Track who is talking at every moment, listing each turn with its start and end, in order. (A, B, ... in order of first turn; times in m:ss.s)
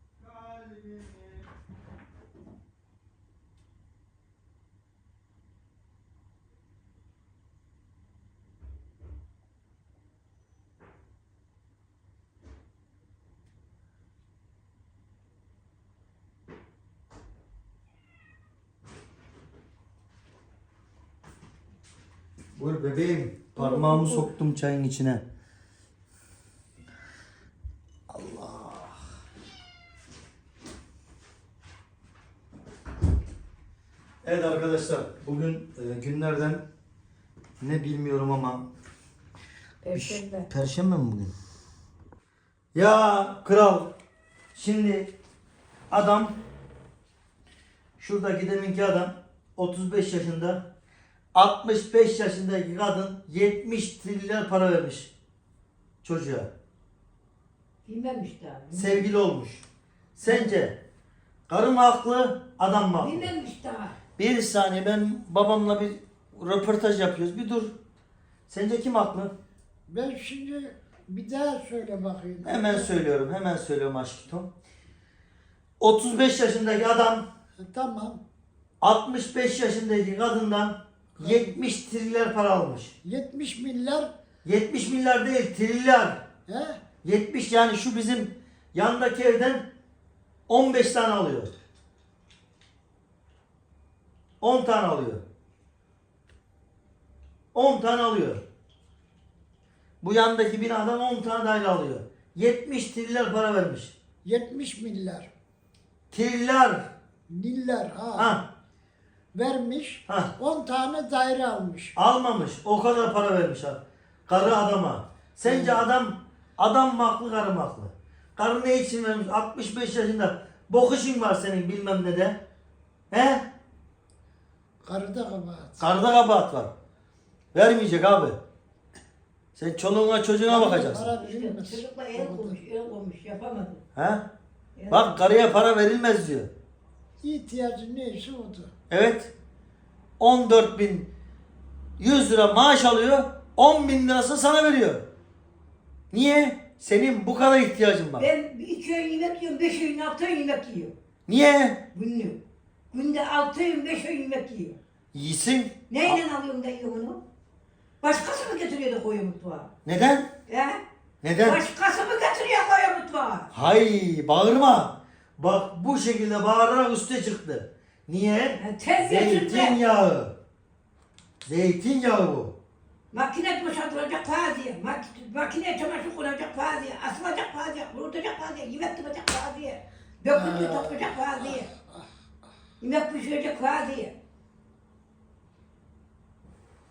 0:00.2-0:01.5 A
0:22.6-0:25.2 A
0:23.6-0:24.3 B
0:28.1-0:29.0 A
0:34.2-0:36.6 A
0:37.6-0:38.7 A
0:39.8-0:40.5 B
0:39.9-0:41.3 A
0:42.7-0:43.9 A
0:44.5-0:45.1 A
0:45.9-0:46.4 A
0:48.0-0:50.7 A
0:51.3-0:55.1 A
0:56.0-0:56.5 A
0:57.8-0:59.1 B
0:58.7-0:59.6 A
1:00.2-1:00.8 A
1:00.2-1:00.6 B
1:01.5-1:03.3 A
1:03.0-1:04.0 B
1:04.2-1:07.8 A
1:08.5-1:09.3 A
1:09.9-1:13.0 C
1:12.4-1:14.5 A
1:15.8-1:17.3 A
1:17.6-1:18.2 C
1:18.8-1:22.9 A
1:21.2-1:21.6 C
1:23.0-1:24.1 C
1:24.4-1:26.3 A
1:26.5-1:26.8 C
1:27.0-1:29.7 A
1:30.5-1:31.5 A
1:34.4-1:35.2 A
1:37.5-1:38.4 A
1:40.0-1:44.0 A
1:44.2-1:45.3 C
1:46.1-1:46.9 A
1:47.3-1:48.4 C
1:48.2-1:48.5 A
1:49.3-1:51.9 C
1:50.1-1:50.3 A
1:52.0-2:02.4 A
1:55.4-1:55.8 C
2:03.1-2:03.5 A
2:04.8-2:05.9 C
2:05.8-2:06.7 A
2:07.5-2:08.4 A
2:09.5-2:11.1 A
2:10.5-2:12.6 C
2:10.5-2:13.8 B
2:13.9-2:14.3 A
2:14.8-2:15.2 B
2:14.9-2:16.5 A
2:17.2-2:18.7 C
2:18.9-2:19.3 A
2:20.2-2:21.1 A
2:22.0-2:25.0 A
2:26.1-2:28.3 A
2:28.2-2:30.9 B
2:31.3-2:31.8 A
2:31.9-2:32.4 B
2:32.9-2:34.8 B
2:35.1-2:36.2 A
2:35.9-2:37.2 B
2:38.0-2:39.7 B
2:39.8-2:40.3 A
2:40.5-2:40.8 B
2:41.2-2:41.6 A
2:41.4-2:43.5 B
2:43.5-2:50.3 A
2:48.6-2:49.8 B
2:51.4-2:52.6 A
2:53.1-3:01.7 B
3:00.3-3:02.1 C
3:02.8-3:04.1 B